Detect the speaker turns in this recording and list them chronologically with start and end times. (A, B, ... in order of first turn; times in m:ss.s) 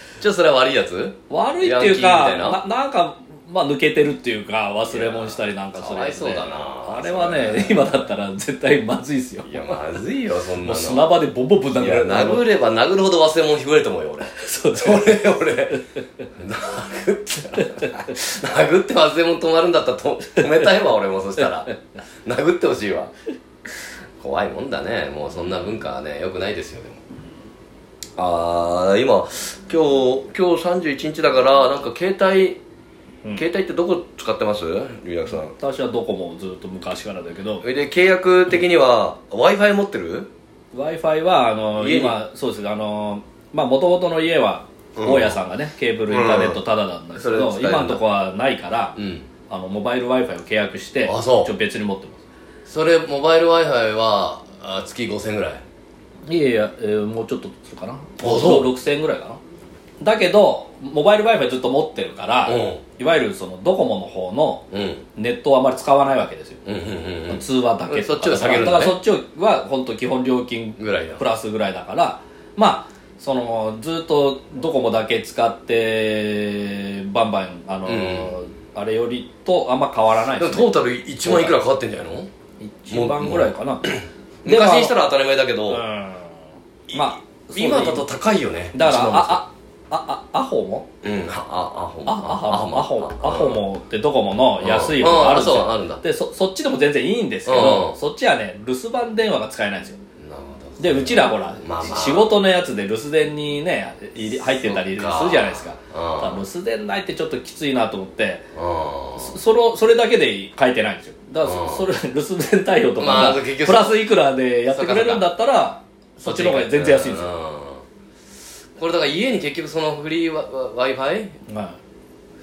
0:00.2-0:02.6 A
0:01.3-0:10.0 B
0:04.8-0:08.0 A
0:09.4-0:11.1 A
0:10.6-0:12.5 B
0:11.8-0:15.8 A
0:14.3-0:15.8 B
0:16.4-0:21.7 A
0:17.6-0:18.0 B
0:20.4-0:20.7 B
0:21.4-0:21.7 B
0:22.2-0:23.1 A
0:24.2-0:27.0 A
0:28.2-0:32.6 A
0:33.3-0:35.5 A
0:35.6-0:37.6 B
0:37.6-0:40.3 A
0:40.7-0:49.0 B
0:41.8-0:42.2 A
0:45.0-0:45.4 A
0:46.1-0:46.6 A
0:47.1-0:48.0 A
0:49.0-0:49.3 A
0:49.5-0:52.2 B
0:51.0-0:51.5 A
0:52.6-0:55.6 A
0:56.3-0:59.4 B
0:58.2-0:58.7 A
1:00.0-1:06.6 B
1:02.4-1:02.8 A
1:04.7-1:05.0 A
1:06.6-1:09.0 A
1:07.3-1:20.7 B
1:10.8-1:11.2 A
1:17.8-1:18.4 A
1:20.4-1:22.3 A
1:21.2-1:21.6 B
1:22.6-1:23.8 B
1:22.9-1:25.8 A
1:24.4-1:24.9 B
1:25.7-1:28.0 B
1:26.9-1:29.4 A
1:28.7-1:30.8 B
1:31.0-1:33.6 A
1:32.0-1:40.0 B
1:34.6-1:36.0 A
1:37.4-1:38.0 A
1:40.2-1:42.4 A
1:40.8-1:48.5 B
1:44.3-1:46.4 A
1:48.5-1:49.4 A
1:49.2-1:57.3 B
1:51.4-1:51.9 A
1:53.0-1:54.1 A
1:54.7-1:55.3 A
1:56.2-1:57.8 A
1:58.8-2:01.3 A
2:01.5-2:01.8 B